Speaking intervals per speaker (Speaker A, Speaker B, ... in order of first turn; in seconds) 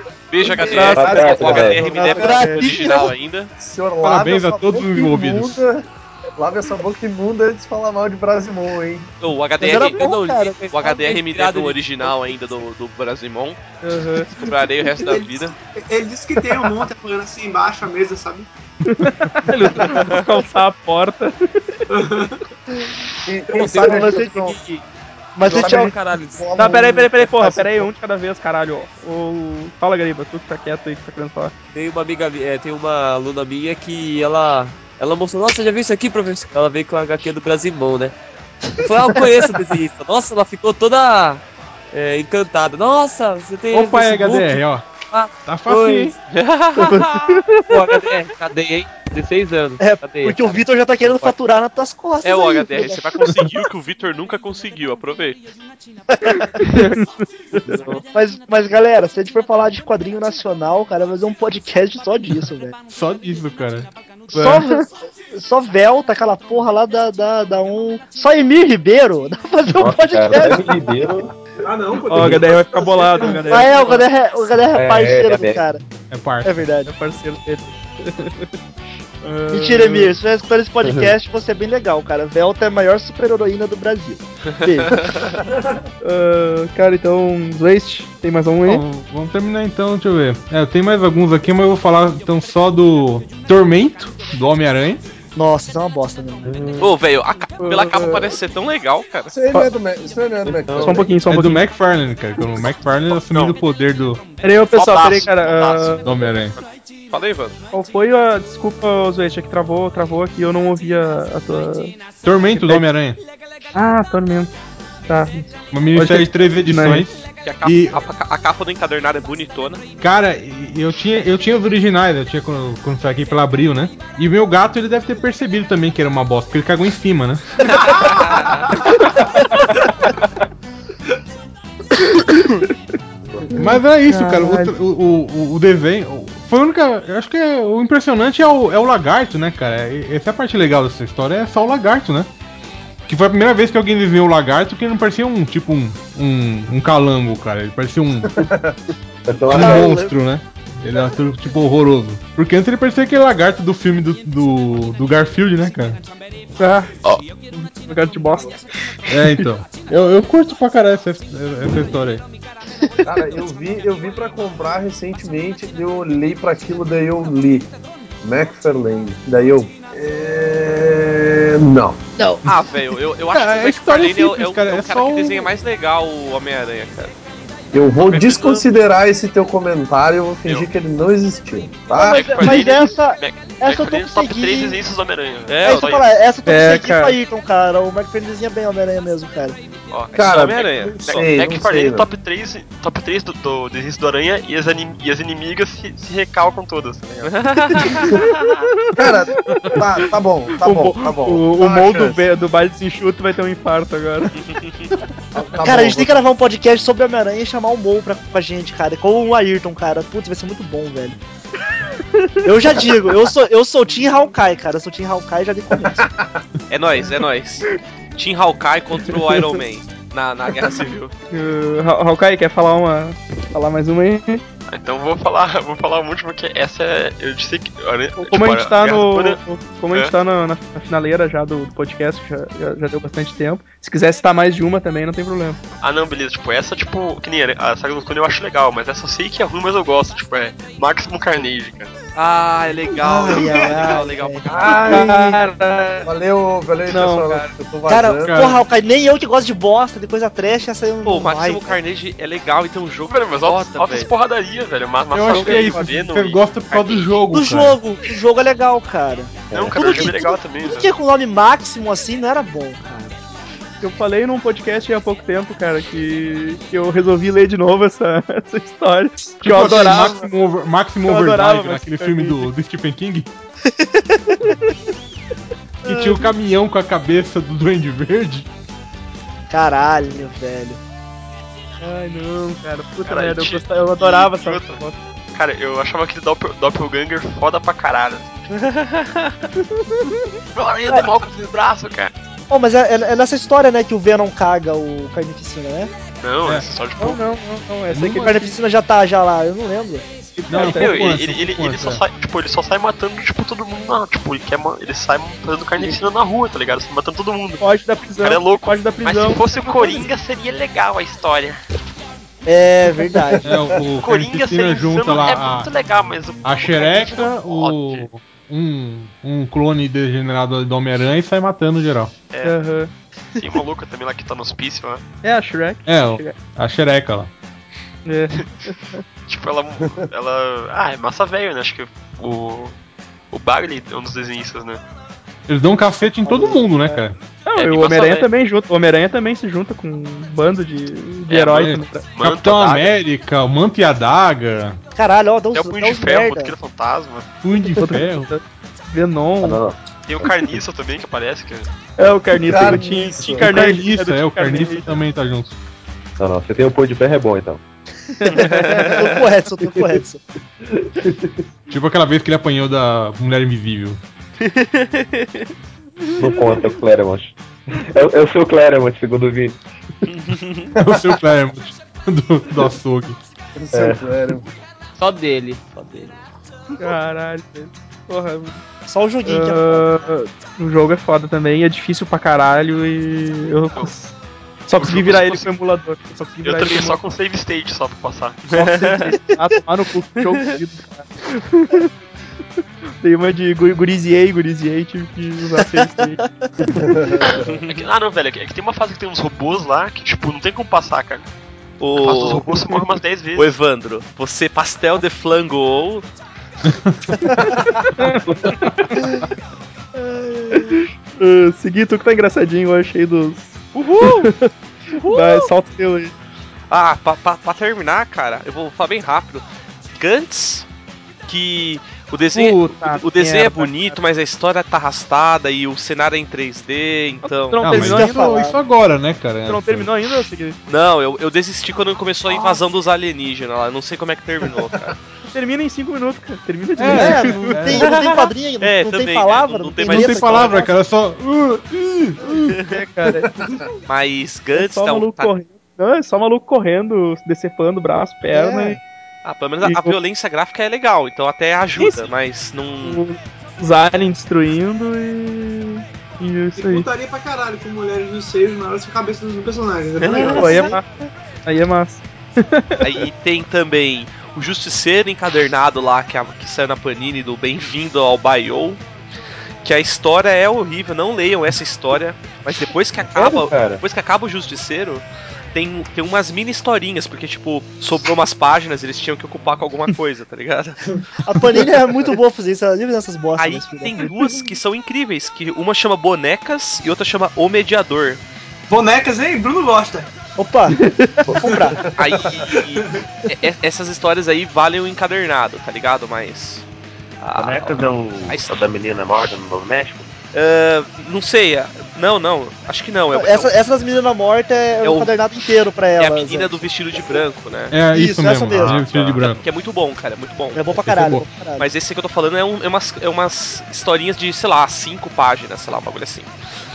Speaker A: 0.3-3.5, 9.2-13.8, 14.3-15.5, 46.3-47.4, 52.2-55.4, 96.8-99.3, 107.1-107.5, 117.4-119.8, 172.5-177.1, 185.5-185.9, 189.9-191.2, 197.2-198.5, 216.7-221.1, 242.2-245.0, 251.0-254.1, 288.5-289.3, 364.4-365.5, 370.2-370.7, 388.6-389.0, 401.8-402.8, 403.3-406.1, 413.7-414.3, 414.9-415.5, 416.7-420.7, 421.3-427.9, 430.7-435.0, 437.8-440.5, 443.9-445.3, 449.2-453.0, 460.0-460.8, 462.8-468.8, 469.6-480.9, 483.4-488.2, 491.9-496.6, 497.2-498.7, 500.3-503.5, 504.8-505.1, 506.0-507.7, 509.2-510.7, 511.6-516.3
Speaker B: 0.4-2.6, 3.6-9.1, 23.2-24.6, 25.4-27.9, 99.3-101.1, 148.2-148.8, 163.0-167.7, 168.2-172.0, 177.7-182.7, 190.1-192.1, 198.9-202.2, 205.3-206.2, 215.8-216.4, 244.5-245.4, 246.1-248.3, 259.7-260.4, 313.3-313.8, 352.5-353.6, 373.6-374.5, 396.8-397.5, 443.2-443.6, 491.8-492.4
Speaker C: 0.6-2.5, 13.8-14.4, 18.9-21.8, 26.5-31.5, 46.8-47.9, 56.5-57.9, 64.3-64.8, 72.0-74.0, 76.8-78.5, 79.2-80.2, 86.0-88.8, 97.6-98.2, 100.8-101.7, 104.4-106.1, 107.7-112.9, 113.7-114.5, 115.0-117.1, 128.8-129.7, 132.1-132.7, 133.6-134.7, 156.6-156.9, 157.5-159.5, 186.4-187.2, 199.0-200.0, 200.6-204.3, 219.1-219.5, 221.3-224.4, 228.2-235.6, 244.7-246.1, 246.8-247.5, 255.3-255.8, 263.8-270.3, 271.0-272.5, 281.8-285.0, 297.0-298.6, 300.3-301.1, 307.6-310.1, 322.4-322.9, 325.2-326.4, 328.1-329.0, 337.4-342.1, 347.6-349.6, 352.0-355.1, 358.2-359.1, 366.2-366.6, 376.8-378.6, 379.2-384.1, 384.7-387.0, 388.6-391.9, 393.0-396.9, 407.4-408.2, 410.5-416.1, 422.4-424.0, 427.2-428.5, 429.4-430.6, 435.3-437.8, 439.9-440.7, 442.2-443.3, 444.5-448.8, 449.6-450.0, 452.8-456.9, 460.1-460.9, 461.4-462.9, 490.8-491.1
Speaker D: 0.9-1.8, 69.7-71.3, 74.7-75.7, 80.8-81.1, 96.4-96.8, 100.4-101.1, 149.2-149.9, 349.4-350.5, 356.2-357.6, 360.7-361.4, 366.2-369.6, 373.7-374.0, 473.1-473.8, 497.3-500.1, 508.5-509.2
Speaker E: 1.9-3.1, 9.6-10.7, 23.7-24.4, 25.4-25.9, 49.8-53.1, 58.1-62.7, 64.3-70.9, 73.5-75.8, 76.4-76.9, 79.5-85.0, 95.3-96.6, 149.5-150.2, 172.2-172.4, 181.9-184.8, 185.6-189.6, 205.6-211.2, 212.4-216.1, 243.0-245.1, 247.9-251.8, 257.3-263.1, 273.7-274.2, 275.9-276.3, 279.5-280.8, 292.5-295.9, 298.2-300.1, 312.4-313.5, 336.2-337.0, 344.9-346.5, 358.3-360.2, 378.9-380.1, 410.0-410.6, 427.8-428.6, 436.9-440.7, 448.3-448.8, 481.2-484.0, 490.4-491.8, 503.1-506.5, 507.9-508.7, 510.5-511.7
Speaker F: 4.0-5.6, 19.5-19.8, 43.7-46.1, 62.9-63.9, 76.1-76.7, 88.6-95.0, 101.2-104.2, 106.0-106.6, 112.2-113.2, 115.7-118.0, 120.0-127.9, 133.6-142.3, 143.1-148.3, 149.5-156.0, 159.1-162.2, 173.3-175.5, 248.2-248.6, 255.1-257.8, 269.4-273.3, 275.8-278.5, 297.9-298.3, 300.5-302.0, 313.4-315.7, 316.4-322.1, 325.9-327.3, 335.5-337.2, 341.6-344.8, 347.4-348.3, 353.3-355.6, 361.7-364.0, 370.8-373.2, 406.6-407.1, 427.6-430.2, 436.8-437.9, 439.9-442.6, 507.7-509.4, 510.8-511.2
Speaker G: 9.7-12.5, 23.5-24.8, 25.4-26.6, 31.7-38.1, 38.8-46.1, 47.7-51.3, 374.9-376.2
Speaker H: 15.0-18.5, 21.9-22.4, 71.6-73.8, 127.7-129.3, 243.3-243.7, 456.6-460.8, 488.7-490.1, 492.6-492.9
Speaker I: 103.1-103.6, 104.6-106.6, 178.1-178.7, 181.9-186.1, 191.1-197.8, 224.7-229.4, 235.8-241.9, 253.1-257.1, 259.5-260.9, 283.0-284.8, 285.3-288.3, 290.5-292.1, 296.2-297.2, 300.6-311.6, 314.0-318.1, 322.3-322.6, 323.4-325.0, 329.3-332.8, 333.3-334.8, 337.6-338.3, 341.3-343.0, 345.5-347.3, 350.1-351.7, 384.8-385.5, 386.4-389.1, 397.6-401.3, 402.0-403.5